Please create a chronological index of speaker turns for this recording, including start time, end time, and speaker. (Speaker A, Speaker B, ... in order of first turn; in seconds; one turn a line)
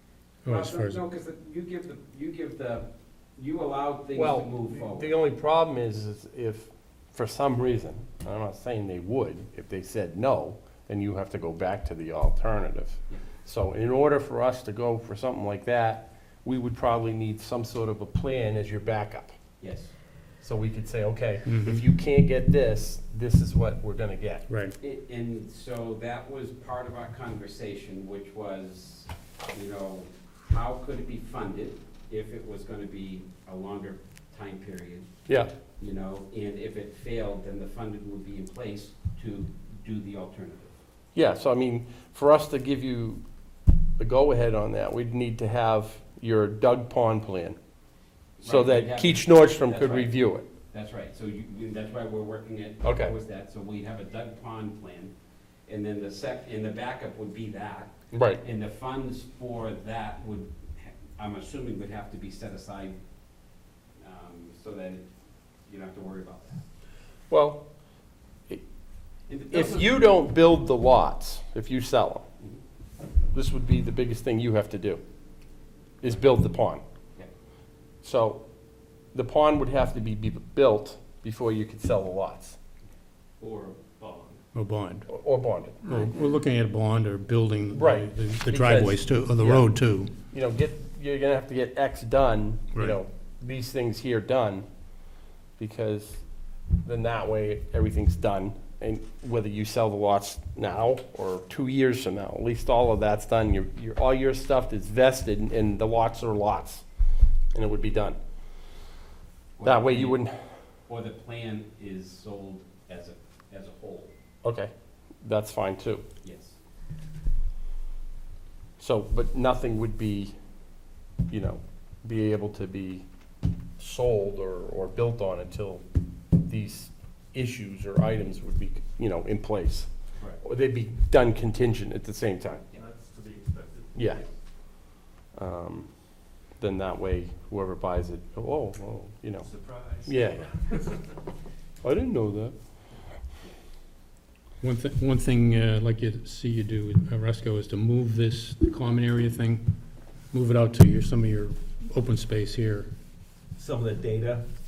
Speaker A: 0.4-1.0
Speaker B: 0.4-5.1
Speaker C: 4.1-19.4
Speaker B: 19.6-19.9
Speaker C: 20.4-24.4
Speaker A: 21.5-21.8
Speaker A: 24.5-24.8
Speaker B: 24.8-35.1
Speaker B: 35.8-40.7
Speaker C: 41.1-43.2
Speaker C: 44.0-47.6
Speaker B: 48.4-55.1
Speaker C: 48.4-50.5
Speaker C: 52.8-53.1
Speaker B: 55.6-63.0
Speaker C: 58.1-58.4
Speaker B: 64.0-65.1
Speaker B: 65.7-66.6
Speaker C: 67.3-67.6
Speaker B: 69.3-70.0
Speaker C: 69.5-72.2
Speaker C: 73.3-75.0
Speaker C: 76.0-76.8
Speaker C: 78.0-78.4
Speaker C: 79.1-82.6
Speaker D: 83.4-84.4
Speaker A: 84.5-85.1
Speaker C: 85.1-85.8
Speaker A: 85.8-90.1
Speaker C: 87.7-89.7
Speaker C: 90.3-94.7
Speaker C: 95.6-96.2
Speaker C: 96.8-106.8
Speaker C: 107.5-108.2
Speaker B: 109.5-110.2
Speaker C: 109.6-110.3
Speaker B: 110.9-114.1
Speaker C: 114.4-116.0
Speaker B: 116.2-116.5
Speaker C: 118.8-120.3
Speaker C: 121.3-123.0
Speaker C: 123.8-125.8
Speaker C: 126.4-132.7
Speaker D: 132.7-134.2
Speaker C: 133.9-135.9
Speaker C: 136.6-139.5
Speaker D: 139.4-140.9
Speaker C: 140.0-140.5
Speaker C: 141.8-142.5
Speaker A: 144.6-149.6
Speaker A: 150.3-152.9
Speaker D: 153.6-154.4